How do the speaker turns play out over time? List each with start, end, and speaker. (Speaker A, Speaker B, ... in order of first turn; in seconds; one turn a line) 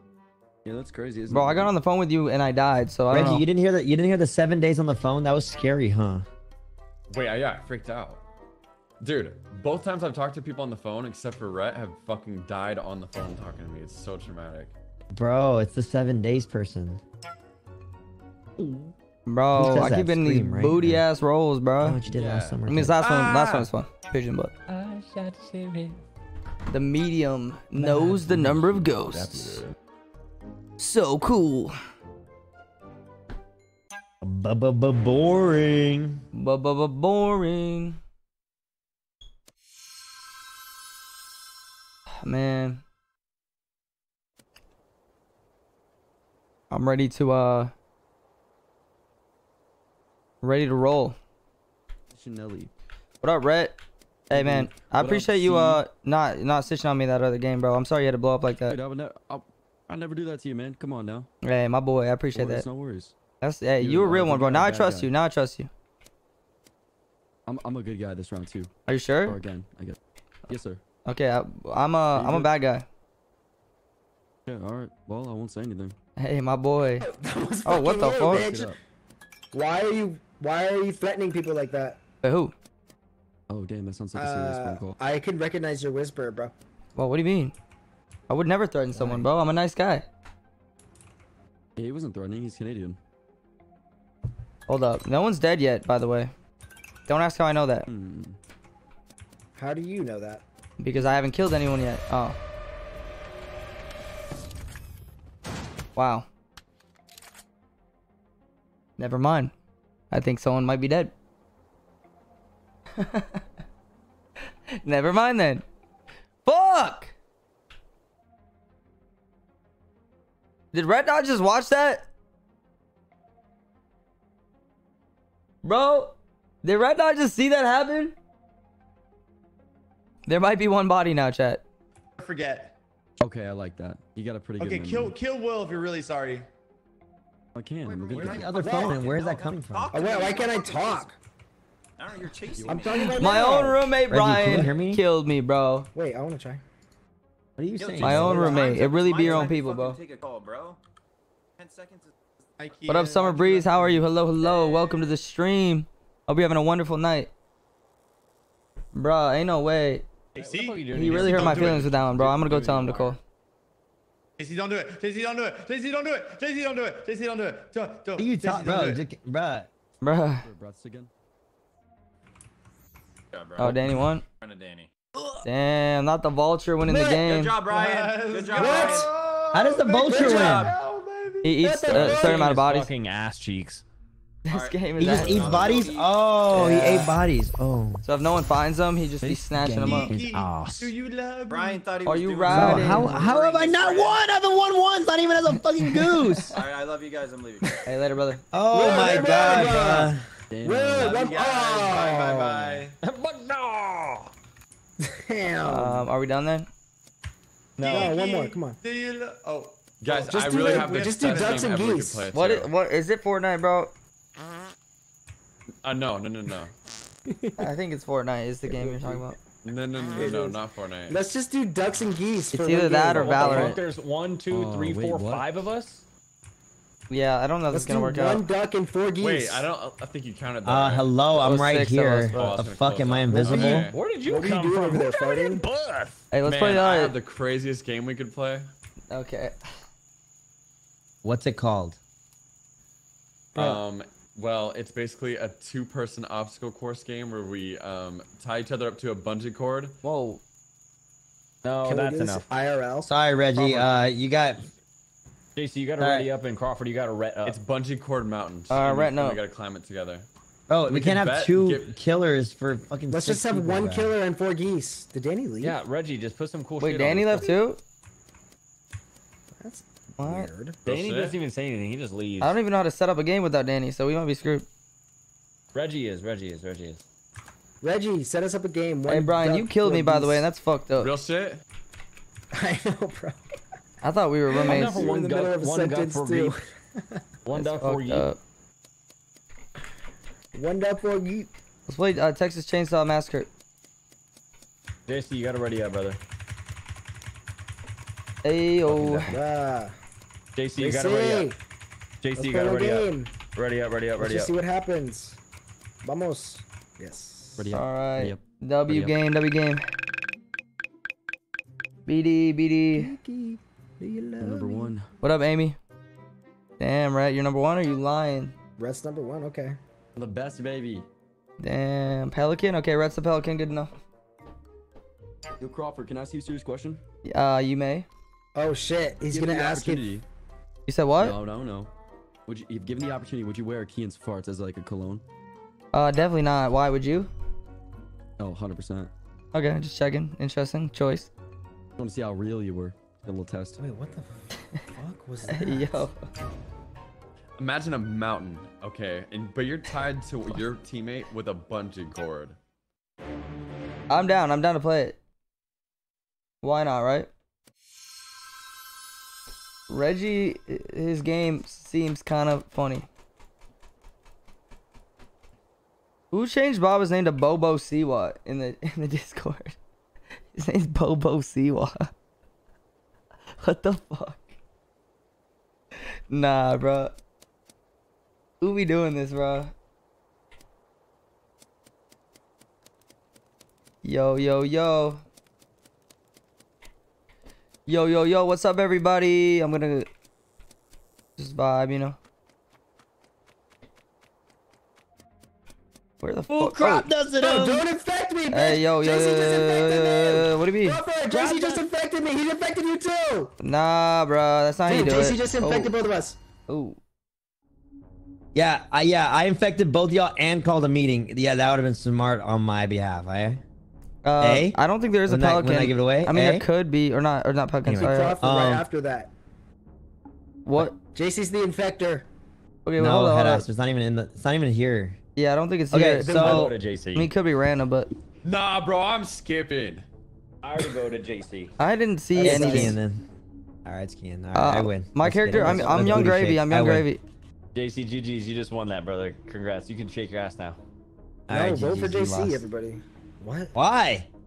Speaker A: 0.6-1.7
Speaker B: 1.3-3.4
Speaker C: 3.1-6.3
Speaker D: 7.1-8.2
Speaker D: 9.0-14.7
Speaker C: 15.1-17.0
Speaker B: 19.3-22.0
Speaker C: 19.5-21.1
Speaker C: 21.8-23.0
Speaker D: 22.1-22.6
Speaker B: 22.7-24.5
Speaker A: 24.7-25.9
Speaker B: 26.7-29.5
Speaker A: 27.8-29.7
Speaker B: 30.8-31.7
Speaker C: 34.2-36.2
Speaker B: 36.3-38.0
Speaker B: 42.2-42.8
Speaker B: 46.7-47.7
Speaker B: 50.4-51.2
Speaker A: 52.1-52.7
Speaker B: 53.2-53.7
Speaker B: 54.3-58.8
Speaker A: 54.3-55.8
Speaker A: 58.7-61.3
Speaker B: 61.4-62.6
Speaker A: 62.3-63.2
Speaker B: 63.4-65.7
Speaker A: 63.8-65.1
Speaker A: 67.5-68.7
Speaker B: 68.9-69.4
Speaker A: 69.2-70.0
Speaker A: 70.5-70.8
Speaker B: 71.0-72.9
Speaker A: 72.1-72.5
Speaker A: 74.5-76.0
Speaker B: 76.2-77.0
Speaker E: 77.0-78.8
Speaker B: 77.6-78.5
Speaker A: 78.3-78.8
Speaker E: 79.5-82.0
Speaker B: 82.2-82.5
Speaker A: 83.5-85.0
Speaker E: 84.1-86.5
Speaker B: 87.0-87.5
Speaker B: 88.3-90.1
Speaker E: 89.0-89.3
Speaker A: 91.8-93.0
Speaker B: 94.7-96.3
Speaker B: 97.1-97.9
Speaker A: 97.9-98.4
Speaker E: 99.5-100.4
Speaker B: 100.8-102.4
Speaker B: 106.0-106.3
Speaker B: 109.0-109.5
Speaker B: 110.1-111.1
Speaker B: 113.0-113.4
Speaker B: 114.8-115.6
Speaker B: 116.5-117.1
Speaker B: 120.7-122.1
Speaker B: 125.6-128.1
Speaker B: 130.3-131.6
Speaker F: 132.2-132.8
Speaker A: 133.2-135.2
Speaker F: 134.6-136.5
Speaker A: 137.5-138.4
Speaker G: 137.8-141.1
Speaker C: 138.2-140.1
Speaker E: 138.6-139.0
Speaker E: 139.9-141.2
Speaker G: 142.0-143.2
Speaker A: 142.5-142.9
Speaker E: 142.7-143.8
Speaker B: 143.1-145.9
Speaker C: 144.1-145.0
Speaker E: 145.9-146.6
Speaker C: 147.6-148.6
Speaker G: 147.8-150.8
Speaker B: 148.0-150.0
Speaker E: 148.1-149.5
Speaker G: 151.6-152.8
Speaker F: 152.6-154.0
Speaker B: 152.9-157.3
Speaker B: 158.9-160.0
Speaker F: 160.4-161.8
Speaker H: 160.4-163.2
Speaker B: 160.9-163.2
Speaker A: 161.2-163.1
Speaker F: 164.4-169.0
Speaker C: 168.2-169.7
Speaker B: 170.0-170.5
Speaker A: 170.4-171.1
Speaker G: 173.3-173.8
Speaker B: 173.6-174.2
Speaker G: 174.4-174.9
Speaker B: 175.4-177.6
Speaker G: 176.9-179.1
Speaker F: 177.7-181.6
Speaker E: 178.5-179.1
Speaker C: 179.5-180.7
Speaker E: 180.1-180.8
Speaker B: 181.4-182.9
Speaker E: 181.6-182.5
Speaker H: 181.9-183.8
Speaker B: 184.5-185.7
Speaker G: 184.5-186.2
Speaker C: 185.0-188.0
Speaker B: 186.5-187.1
Speaker B: 188.0-190.1
Speaker A: 189.2-190.9
Speaker F: 189.9-191.9
Speaker G: 191.5-194.2
Speaker B: 192.1-193.1
Speaker C: 192.5-196.5
Speaker G: 196.5-197.8
Speaker B: 197.9-198.4
Speaker C: 198.5-200.2
Speaker E: 198.7-202.8
Speaker F: 198.8-200.1
Speaker A: 200.5-201.2
Speaker F: 201.0-203.0
Speaker H: 203.0-204.3
Speaker E: 205.0-206.1
Speaker B: 205.7-206.7
Speaker F: 207.8-211.8
Speaker E: 207.8-208.8
Speaker D: 210.0-212.7
Speaker E: 210.3-212.3
Speaker B: 212.3-213.9
Speaker D: 215.8-216.7
Speaker E: 217.3-217.7
Speaker B: 217.6-219.3
Speaker E: 218.6-219.4
Speaker D: 219.6-221.2
Speaker E: 220.1-223.8
Speaker B: 222.5-223.8
Speaker H: 223.1-226.0
Speaker A: 224.5-225.6
Speaker B: 227.1-228.4
Speaker E: 227.7-229.7
Speaker D: 229.2-231.1
Speaker C: 230.6-233.9
Speaker B: 231.4-232.4
Speaker D: 232.3-234.0
Speaker E: 233.3-235.6
Speaker H: 233.4-236.2
Speaker B: 236.3-237.1
Speaker D: 236.4-238.7
Speaker B: 239.1-239.6
Speaker C: 241.2-242.0
Speaker D: 243.5-250.0
Speaker E: 243.6-243.8
Speaker B: 250.0-250.4
Speaker H: 251.6-252.4
Speaker E: 251.8-253.9
Speaker C: 253.1-254.7
Speaker H: 255.5-257.6
Speaker C: 256.0-256.3
Speaker D: 257.4-260.2
Speaker B: 258.7-259.4
Speaker C: 260.7-264.1
Speaker D: 260.9-261.9
Speaker E: 263.1-265.8
Speaker H: 265.6-267.5
Speaker B: 266.8-267.8
Speaker E: 269.6-270.8
Speaker B: 270.2-270.5
Speaker D: 270.9-271.3
Speaker H: 270.9-272.6
Speaker B: 272.4-274.6
Speaker H: 275.7-277.0
Speaker E: 277.8-280.5
Speaker B: 279.1-281.1
Speaker D: 281.0-281.6
Speaker E: 282.5-283.4
Speaker B: 284.0-285.1
Speaker E: 284.5-287.2
Speaker H: 284.6-286.5
Speaker H: 287.4-288.3
Speaker B: 287.5-288.4
Speaker E: 290.5-291.5
Speaker B: 291.9-293.5
Speaker H: 295.1-296.2
Speaker B: 298.4-299.3
Speaker H: 298.9-299.4
Speaker E: 299.3-299.9
Speaker H: 300.6-301.5
Speaker E: 300.8-301.6
Speaker H: 302.2-304.5
Speaker E: 302.4-303.3
Speaker E: 304.2-305.4
Speaker E: 306.0-307.7
Speaker A: 307.6-309.1
Speaker B: 307.7-309.8
Speaker B: 312.1-313.1
Speaker E: 312.9-314.9
Speaker A: 314.4-315.1
Speaker B: 315.2-315.8
Speaker B: 316.8-318.5
Speaker E: 318.8-319.8
Speaker A: 320.2-321.0
Speaker B: 321.6-323.9
Speaker A: 325.6-327.0
Speaker B: 327.2-328.1
Speaker E: 328.5-330.1
Speaker A: 329.3-330.2
Speaker B: 330.9-331.4
Speaker A: 331.2-331.9
Speaker A: 332.5-335.2
Speaker B: 335.9-337.3
Speaker A: 338.4-339.1
Speaker B: 339.5-341.3
Speaker A: 342.0-343.8
Speaker E: 343.8-346.1
Speaker B: 345.5-346.1
Speaker D: 347.6-352.6
Speaker B: 354.1-355.2
Speaker B: 356.6-357.3
Speaker B: 359.9-363.1
Speaker B: 366.3-369.8
Speaker B: 370.5-372.1
Speaker B: 373.6-374.5
Speaker B: 376.3-377.1
Speaker B: 378.6-379.7
Speaker B: 384.0-385.2
Speaker B: 387.9-390.1
Speaker B: 391.4-392.2
Speaker B: 396.2-397.1
Speaker C: 396.5-397.8
Speaker E: 397.4-403.5
Speaker B: 398.5-401.0
Speaker C: 401.3-401.8
Speaker B: 403.6-405.9
Speaker E: 404.9-406.4
Speaker B: 406.7-407.0
Speaker C: 408.5-413.6
Speaker B: 414.2-418.4
Speaker C: 414.4-416.7
Speaker C: 417.8-418.9
Speaker E: 417.9-419.3
Speaker B: 420.7-420.9
Speaker E: 421.1-422.3
Speaker B: 422.8-423.7
Speaker C: 423.0-425.2
Speaker B: 425.4-428.1
Speaker C: 425.9-426.7
Speaker E: 426.2-426.7
Speaker H: 426.3-427.3
Speaker D: 428.4-430.0
Speaker H: 430.6-431.7
Speaker B: 431.8-433.0
Speaker E: 432.4-433.0
Speaker C: 432.4-433.2
Speaker C: 433.8-437.1
Speaker B: 434.5-437.2
Speaker H: 437.8-440.8
Speaker C: 441.5-442.7
Speaker E: 441.5-443.7
Speaker C: 443.7-444.3